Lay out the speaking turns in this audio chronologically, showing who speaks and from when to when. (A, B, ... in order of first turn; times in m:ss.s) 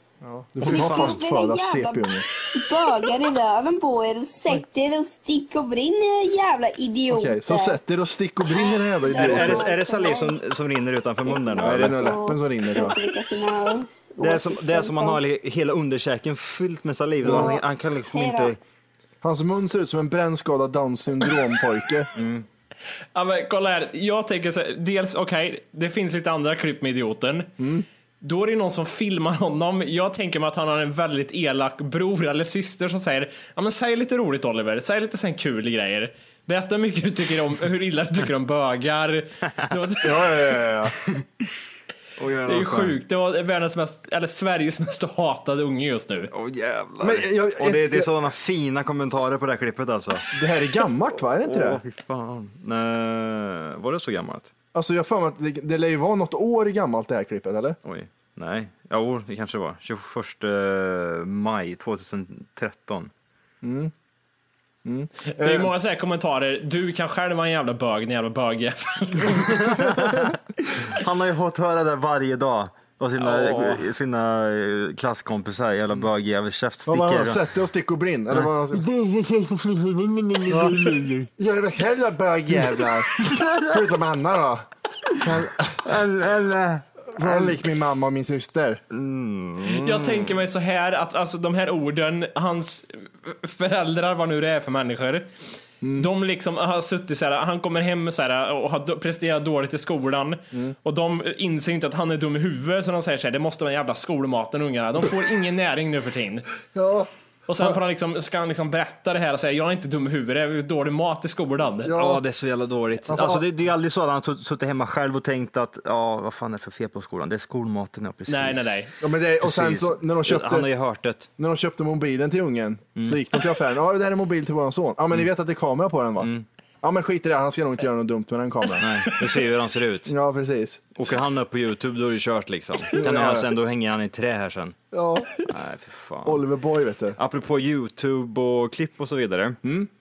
0:00.2-0:02.3 A
0:00.6-0:01.2 B
0:00.6-0:07.8 C
0:07.1-0:09.7 A
0:08.5-0:10.4 C
0:09.1-0:12.2 B
0:11.2-0:15.2 C
0:11.6-0:13.0 A
0:14.2-0:18.6 B
0:17.2-0:17.6 A
0:17.2-0:18.6 C
0:19.2-0:22.1 A
0:22.2-0:22.5 B
0:23.1-0:27.5 D
0:27.6-0:27.9 A
0:28.2-0:40.5 D
0:40.0-0:41.0 A
0:42.2-0:42.9 B
0:42.5-0:46.3 D
0:46.3-0:50.3 B
0:47.0-0:48.1 A
0:50.3-0:51.8 A
0:51.4-0:54.5 B
0:54.7-0:57.8 A
0:57.8-1:03.1 B
1:03.6-1:03.9 A
1:04.8-1:05.7 A
1:05.4-1:09.9 D
1:09.4-1:17.4 B
1:13.2-1:13.9 A
1:16.9-1:18.9 A
1:18.3-1:21.3 B
1:20.5-1:24.7 A
1:22.6-1:23.8 B
1:25.2-1:26.0 A
1:25.8-1:27.6 B
1:27.2-1:28.8 A
1:28.9-1:30.4 B
1:29.6-1:35.3 D
1:35.8-1:36.1 A
1:36.0-1:46.5 D
1:46.8-1:47.8 A
1:47.5-1:51.9 D
1:51.8-1:52.2 A
1:51.9-1:58.7 B
1:53.1-1:53.4 A
1:58.3-1:58.9 D
1:59.0-2:00.7 A
1:59.4-2:01.3 B
2:01.4-2:08.9 A
2:06.2-2:06.5 B
2:08.8-2:10.1 B
2:10.1-2:10.8 A
2:11.0-2:14.8 B
2:12.9-2:13.6 A
2:14.9-2:15.3 A
2:15.4-2:16.4 B
2:16.2-2:17.2 A
2:17.2-2:19.6 B
2:19.6-2:19.9 A